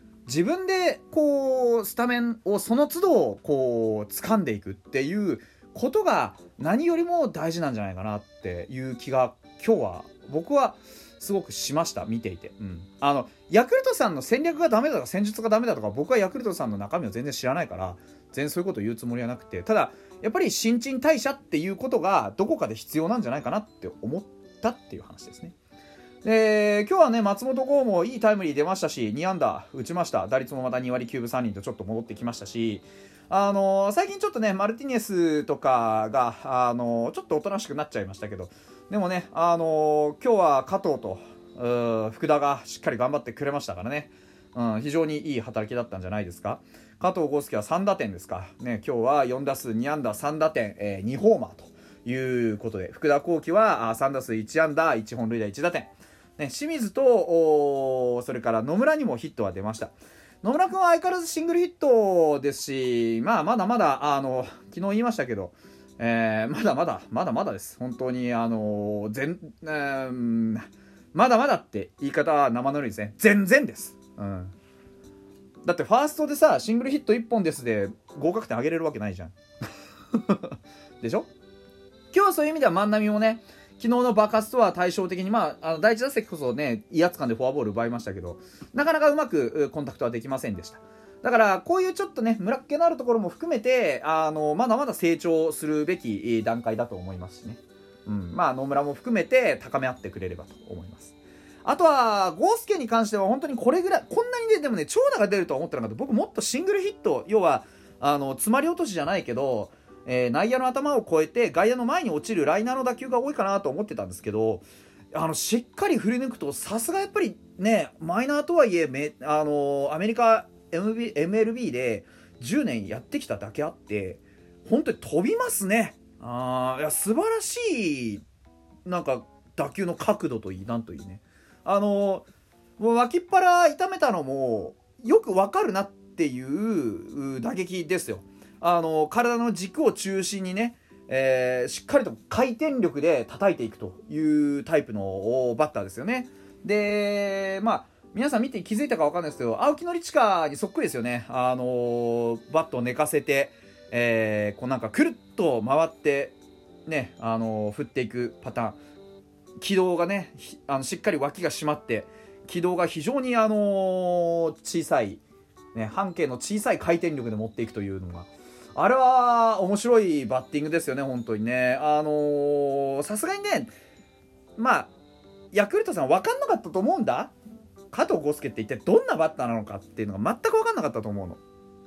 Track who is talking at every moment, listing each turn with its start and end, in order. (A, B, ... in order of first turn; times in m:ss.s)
0:00.3-0:25.6 A
0:26.2-1:14.5 A
1:15.6-1:19.4 A
1:20.1-1:21.3 A
1:22.1-2:08.2 A
2:08.8-2:12.3 A
2:12.8-2:36.4 A
2:36.9-2:38.8 A
2:39.6-2:45.2 A
2:45.7-2:53.7 A
2:54.6-2:54.9 A
2:55.5-2:57.3 A
2:57.9-3:01.4 A